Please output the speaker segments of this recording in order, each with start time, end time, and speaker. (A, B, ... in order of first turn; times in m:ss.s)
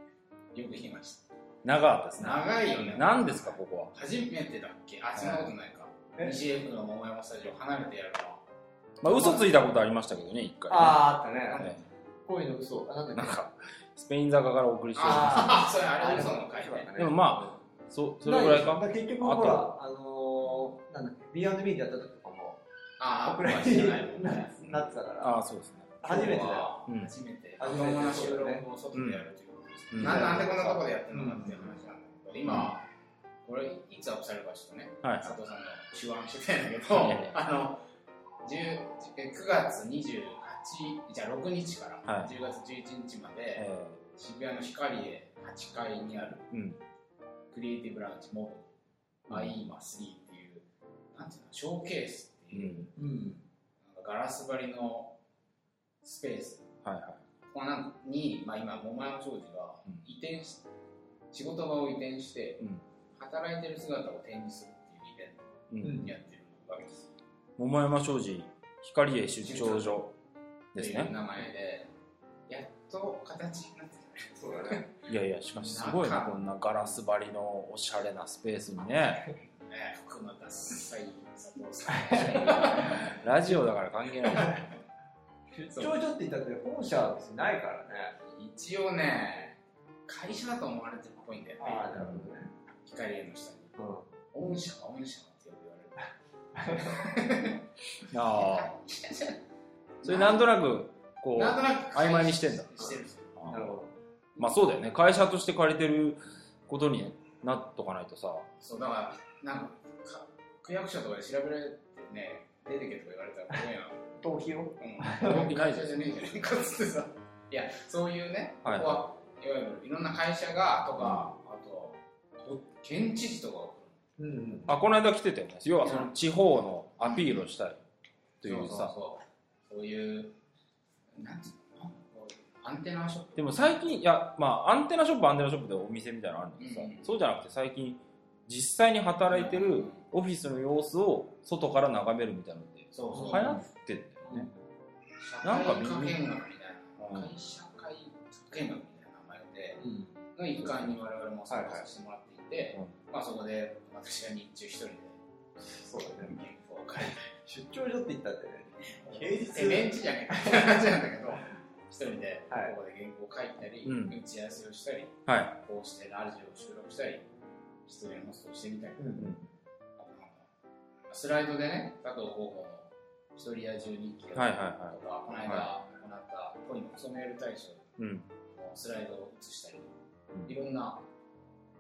0:00.5-0:01.2 A
0:01.6-0:03.9 B
0:02.2-0:08.4 A
0:05.2-0:05.5 B
0:09.0-0:11.8 B
0:09.1-0:09.5 C
0:10.7-0:11.7 C
0:11.5-0:11.8 A
0:12.3-0:13.4 C
0:13.2-0:15.7 B
0:15.0-0:16.9 A
0:15.0-0:17.6 C
0:17.0-0:19.7 B
0:18.2-0:22.6 C
0:23.0-0:24.5 A
0:23.2-0:25.4 C
0:24.7-0:26.2 B
0:26.0-0:26.8 C
0:26.0-0:32.8 A
0:26.9-0:27.1 B
0:27.6-0:28.6 C
0:28.9-0:29.3 B
0:29.9-0:30.4 B
0:30.0-0:31.6 C
0:32.5-0:32.7 B
0:33.4-0:37.8 A
0:35.0-0:35.3 B
0:36.9-0:37.4 B
0:38.4-0:46.4 A
0:42.1-0:42.3 B
0:43.6-0:44.0 B
0:46.5-0:46.8 B
0:47.5-0:48.6 A
0:49.3-0:52.9 A
0:52.5-0:52.9 B
0:53.0-0:53.4 C
0:53.8-0:55.1 A
0:56.0-0:56.7 A
0:56.8-0:57.2 B
0:57.5-1:00.6 A
1:01.3-1:02.6 A
1:03.2-1:05.4 A
1:05.7-1:06.0 B
1:05.8-1:06.1 C
1:05.9-1:07.1 A
1:07.6-1:10.1 B
1:09.4-1:10.0 A
1:10.7-1:11.2 B
1:10.8-1:11.9 A
1:12.5-1:14.9 A
1:14.4-1:14.9 C
1:15.1-1:19.3 B
1:15.5-1:16.9 A
1:19.7-1:23.2 A
1:21.9-1:22.6 C
1:23.2-1:24.6 B
1:24.2-1:24.6 A
1:25.5-1:28.2 C
1:25.7-1:26.0 A
1:28.3-1:32.0 A
1:31.6-1:32.5 C
1:32.0-1:32.3 B
1:32.8-1:33.7 A
1:33.8-1:34.1 C
1:34.3-1:36.1 A
1:36.6-1:36.9 C
1:36.6-1:37.6 A
1:38.1-1:38.7 B
1:38.2-1:39.4 A
1:40.0-1:40.5 A
1:40.0-1:42.8 B
1:41.4-1:43.4 A
1:43.4-1:43.7 B
1:43.5-1:43.9 C
1:44.4-1:48.4 B
1:48.6-1:54.0 A
1:54.2-1:55.5 C
1:54.8-2:04.0 A
1:55.2-1:55.9 B
1:58.6-1:59.0 B
2:04.2-2:04.7 C
2:04.7-2:07.8 B
2:05.8-2:06.2 A
2:07.0-2:07.5 A
2:08.4-2:08.9 B
2:08.4-2:10.3 A
2:11.2-2:13.4 A
2:13.4-2:24.5 B
2:16.6-2:17.1 A
2:19.3-2:20.0 A
2:22.9-2:23.6 A
2:23.1-2:23.6 C
2:24.3-2:24.5 C
2:25.2-2:29.8 A
2:25.4-2:26.2 B
2:27.0-2:27.3 B
2:29.8-2:30.7 C
2:30.4-2:35.2 A
2:31.5-2:31.8 C
2:35.6-2:36.4 C
2:36.2-2:37.3 A
2:37.4-2:40.8 C
2:38.7-2:47.2 A
2:43.8-2:44.2 B
2:45.3-2:45.5 B
2:47.9-2:49.2 A
2:49.0-2:49.3 C
2:49.2-2:49.5 B
2:50.0-2:50.5 A
2:51.1-2:57.8 A
2:54.3-2:55.7 B
2:58.0-2:58.2 B
2:58.5-2:59.9 A
3:00.5-3:01.0 A